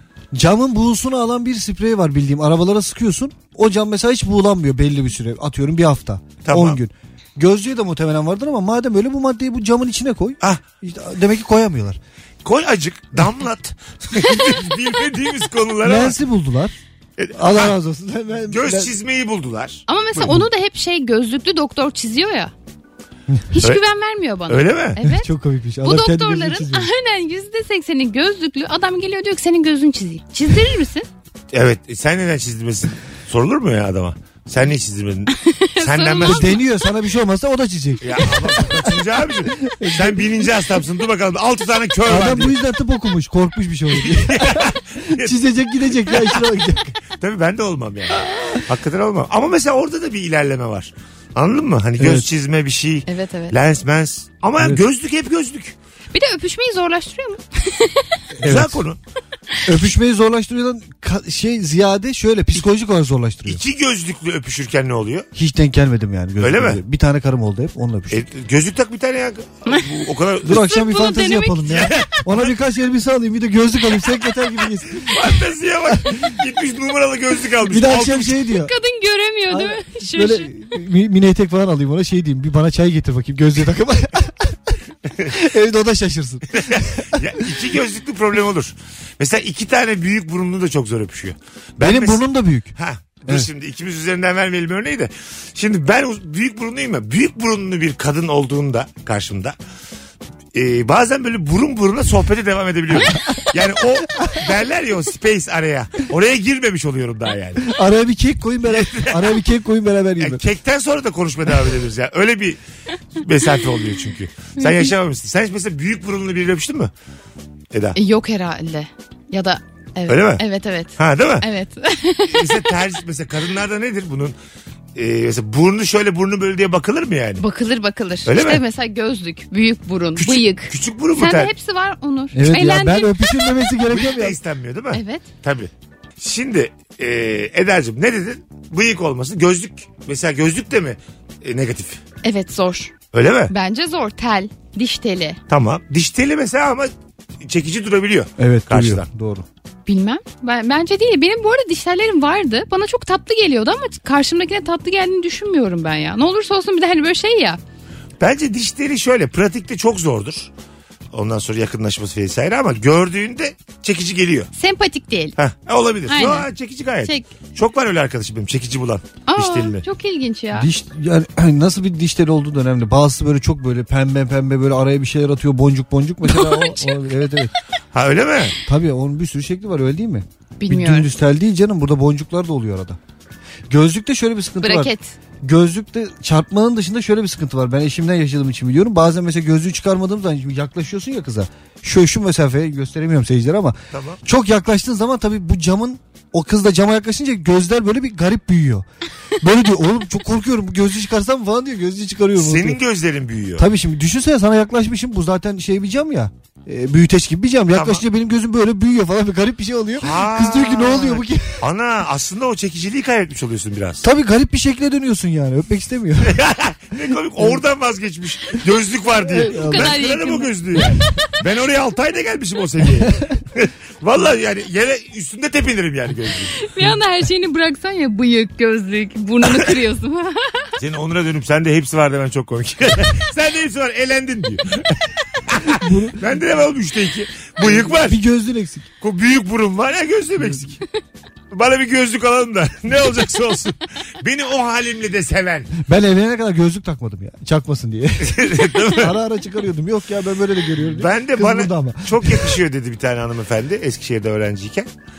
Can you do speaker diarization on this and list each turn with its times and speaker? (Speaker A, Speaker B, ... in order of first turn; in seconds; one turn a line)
Speaker A: 0.3-12.0
Speaker B: 6.4-6.8
Speaker B: 12.4-16.2
Speaker A: 15.8-16.8
Speaker B: 17.2-17.8
Speaker A: 17.4-18.9
Speaker B: 18.5-20.4
Speaker C: 19.9-22.5
Speaker C: 23.5-25.3
Speaker B: 24.5-25.0
Speaker A: 25.0-26.9
Speaker C: 25.8-31.1
Speaker B: 31.5-36.5
Speaker C: 35.4-36.5
Speaker A: 36.2-38.9
Speaker B: 38.0-42.6
Speaker A: 39.6-40.3
Speaker A: 42.1-47.0
Speaker B: 44.0-45.4
Speaker B: 46.1-46.4
Speaker B: 47.1-55.8
Speaker A: 48.3-48.6
Speaker A: 52.0-52.3
Speaker C: 53.1-53.5
Speaker C: 56.1-58.2
Speaker A: 58.3-58.8
Speaker B: 58.4-59.0
Speaker A: 59.7-63.6
Speaker B: 63.5-65.3
Speaker A: 65.3-68.2
Speaker B: 66.4-66.8
Speaker B: 68.1-70.8
Speaker A: 70.4-75.3
Speaker C: 70.5-71.6
Speaker B: 71.6-72.5
Speaker B: 75.0-78.4
Speaker A: 77.6-78.7
Speaker C: 78.6-80.5
Speaker A: 79.5-84.8
Speaker B: 85.1-85.3
Speaker A: 85.3-87.4
Speaker B: 86.5-92.2
Speaker A: 91.8-92.7
Speaker B: 92.8-99.6
Speaker B: 100.5-107.7
Speaker A: 103.0-103.4
Speaker A: 107.6-110.4
Speaker B: 108.7-109.3
Speaker B: 110.2-112.6
Speaker B: 113.1-116.9
Speaker B: 117.7-118.0
Speaker C: 118.0-122.8
Speaker B: 120.1-120.4
Speaker B: 121.0-121.5
Speaker B: 122.3-124.4
Speaker B: 125.0-127.4
Speaker C: 127.4-133.5
Speaker B: 128.2-128.6
Speaker B: 130.2-131.5
Speaker A: 132.3-134.4
Speaker B: 133.9-142.0
Speaker C: 134.9-135.3
Speaker C: 142.2-142.9
Speaker B: 143.1-143.5
Speaker C: 143.5-145.4
Speaker B: 145.5-146.9
Speaker B: 147.4-149.1
Speaker A: 148.4-149.5
Speaker C: 149.9-157.6
Speaker B: 158.2-160.5
Speaker B: 161.1-164.5
Speaker C: 164.6-165.3
Speaker B: 165.4-169.8
Speaker C: 166.1-166.5
Speaker C: 167.0-167.3
Speaker C: 169.3-170.7
Speaker A: 170.6-177.5
Speaker C: 176.3-176.9
Speaker B: 177.9-178.6
Speaker A: 178.7-183.0
Speaker C: 180.6-181.1
Speaker A: 183.7-184.9
Speaker C: 184.6-185.1
Speaker A: 185.4-198.9
Speaker B: 193.9-194.2
Speaker A: 199.4-202.8
Speaker B: 202.4-203.7
Speaker A: 203.6-211.6
Speaker B: 207.7-208.0
Speaker B: 210.0-214.1
Speaker A: 214.0-216.4
Speaker B: 216.2-226.6
Speaker A: 219.3-220.0
Speaker C: 219.7-220.5
Speaker C: 226.6-230.8
Speaker B: 230.8-238.2
Speaker A: 235.7-236.2
Speaker A: 237.6-238.9
Speaker B: 239.0-240.8
Speaker B: 241.5-245.7
Speaker A: 245.8-252.6
Speaker B: 248.2-249.2
Speaker B: 250.8-254.9